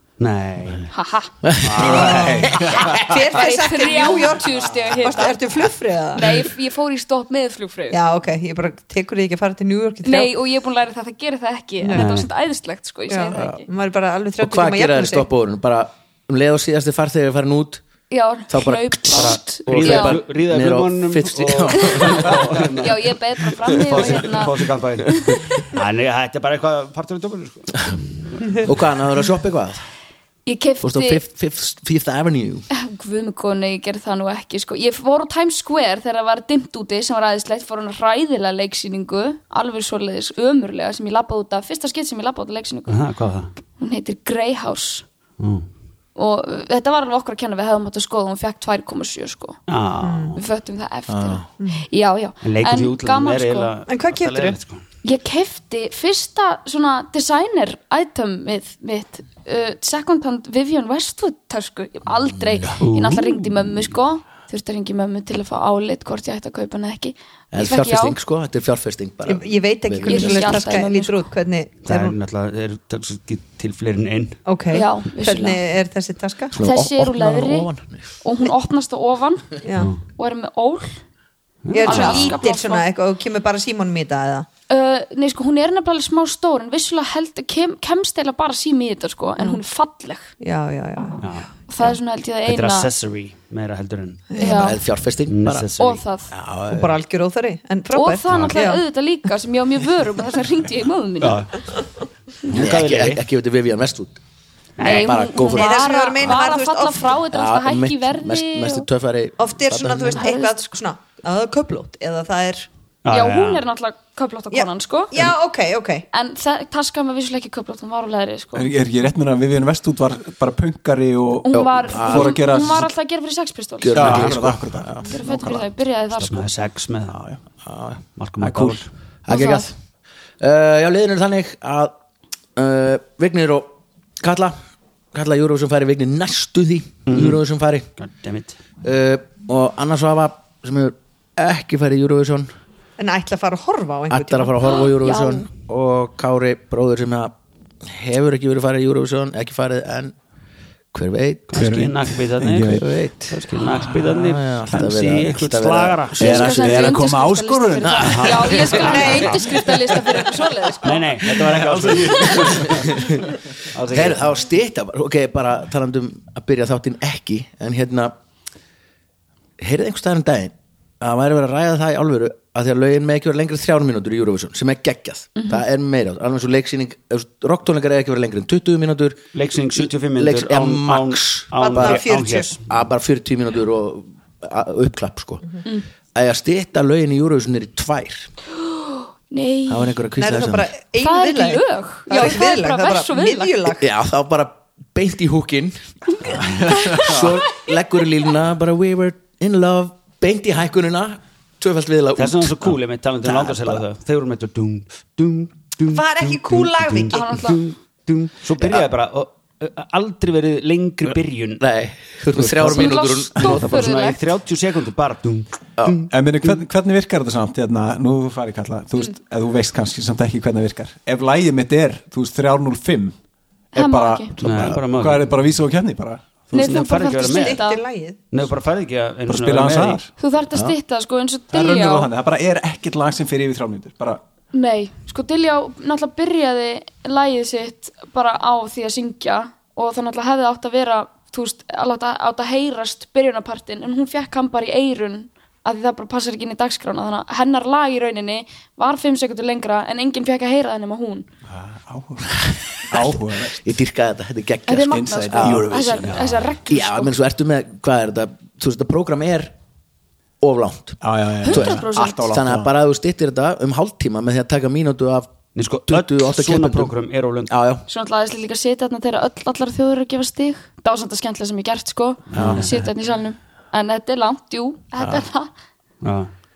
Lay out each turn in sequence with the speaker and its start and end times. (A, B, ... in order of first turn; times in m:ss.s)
0:00.2-0:00.9 A
0:00.9-0:01.3 B
0:01.4-0:02.1 C
0:01.6-0:02.5 A
0:01.8-0:06.3 D
0:01.8-0:03.0 E
0:02.9-0:05.4 B
0:06.1-0:08.0 B
0:07.9-0:10.3 D
0:10.0-0:13.6 B
0:11.8-0:12.1 D
0:11.9-0:12.3 A
0:13.1-0:15.3 D
0:13.3-0:13.6 C
0:14.4-0:17.8 C
0:18.1-0:20.2 B
0:18.5-0:22.9 C
0:19.1-0:23.1 A
0:21.8-0:24.5 B
0:23.7-0:28.7 A
0:23.7-0:24.2 C
0:25.1-0:25.4 B
0:28.6-0:29.8 C
0:30.4-0:31.2 B
0:30.8-0:32.6 C
0:32.7-0:43.0 B
0:42.9-0:43.5 A
0:43.8-0:45.0 B
0:45.4-0:45.6 A
0:46.2-0:49.6 B
0:49.7-0:50.4 A
0:50.0-0:50.4 D
0:50.3-0:53.7 B
0:51.1-0:51.4 C
0:52.4-0:54.8 A
0:53.9-0:54.6 D
0:55.0-1:08.2 B
1:02.8-1:03.5 A
1:07.5-1:10.8 C
1:09.3-1:12.2 D
1:10.0-1:11.3 B
1:11.8-1:14.4 A
1:14.5-1:16.6 D
1:14.7-1:15.6 B
1:16.5-1:18.0 C
1:16.6-1:17.7 B
1:18.2-1:19.6 B
1:19.6-1:19.9 D
1:20.2-1:21.0 B
1:21.6-1:22.4 A
1:21.7-1:24.5 D
1:21.8-1:22.8 B
1:24.7-1:30.3 B
1:30.4-1:31.2 D
1:31.2-1:31.5 A
1:31.7-1:32.9 B
1:32.4-1:34.3 A
1:34.3-1:34.7 D
1:34.4-1:34.8 B
1:34.4-1:35.7 C
1:35.3-1:36.0 A
1:35.8-1:36.3 B
1:36.3-1:37.0 C
1:36.7-1:38.8 D
1:37.9-1:41.5 B
1:38.3-1:38.6 A
1:41.2-1:41.5 A
1:42.5-1:43.2 A
1:42.5-1:44.2 C
1:44.8-1:45.1 A
1:44.8-1:48.9 B
1:44.9-1:47.2 D
1:44.9-1:45.8 C
1:47.3-1:50.2 C
1:49.4-1:52.7 D
1:50.1-1:50.6 B
1:53.0-1:53.6 A
1:53.1-1:55.1 B
1:54.5-1:56.0 D
1:56.1-1:58.7 B
1:58.5-2:02.9 E
2:01.4-2:04.3 B
2:01.5-2:02.4 C
2:03.8-2:05.1 C
2:03.9-2:05.7 E
2:05.0-2:06.5 B
2:06.1-2:07.2 A
2:07.1-2:07.4 E
2:07.6-2:08.0 C
2:08.2-2:08.9 A
2:08.4-2:08.8 E
2:09.2-2:09.7 C
2:09.3-2:09.7 B
2:10.4-2:11.9 C
2:12.6-2:14.6 C
2:15.1-2:17.9 C
2:17.1-2:17.4 A
2:18.0-2:18.6 A
2:18.8-2:22.5 C
2:23.0-2:24.6 D
2:24.1-2:27.3 C
2:24.9-2:25.4 B
2:27.8-2:30.1 C
2:30.9-2:31.5 C
2:31.5-2:36.5 A
2:31.5-2:32.9 E
2:32.7-2:33.4 C
2:34.1-2:37.1 C
2:36.2-2:41.2 B
2:36.2-2:39.3 E
2:37.8-2:39.2 C
2:38.0-2:39.4 A
2:38.7-2:39.7 D
2:40.8-2:43.2 A
2:41.4-2:42.9 E
2:42.1-2:42.5 B
2:42.4-2:43.2 C
2:43.7-2:44.2 A
2:43.9-2:48.1 C
2:49.6-2:59.2 C
2:55.4-2:55.6 B
2:59.3-3:02.6 A
2:59.8-3:02.0 C
3:01.6-3:02.5 D
3:02.6-3:05.5 C
3:06.1-3:08.3 C
3:08.6-3:09.9 B
3:09.7-3:10.7 C
3:10.2-3:13.9 D
3:11.0-3:13.5 B
3:13.8-3:22.7 C
3:16.7-3:17.1 E
3:16.7-3:17.2 B
3:22.2-3:31.6 A
3:23.2-3:23.8 C
3:25.9-3:27.3 D
3:27.1-3:27.6 B
3:28.6-3:28.8 C
3:31.6-3:33.9 C
3:32.4-3:36.6 A
3:32.6-3:34.2 B
3:36.1-3:43.1 E
3:43.7-3:46.8 E
3:43.8-3:44.3 B
3:44.4-3:45.3 A
3:46.5-3:47.6 A
3:46.5-3:47.8 B
3:47.2-3:48.2 D
3:48.3-3:50.0 A
3:49.3-3:50.1 E
3:50.2-3:52.1 B
3:51.5-3:54.2 E
3:54.5-4:11.2 B
4:11.5-4:13.6 E
4:12.9-4:15.8 C
4:14.7-4:17.1 B
4:14.9-4:16.2 E
4:16.0-4:16.4 A
4:16.7-4:19.5 C
4:20.4-4:25.3 C
4:21.0-4:22.7 E
4:21.4-4:22.2 B
4:25.5-4:27.5 A
4:25.9-4:26.9 C
4:27.5-4:27.8 C
4:27.9-4:35.5 B
4:32.3-4:32.8 A
4:32.3-4:32.6 C
4:36.0-4:36.3 A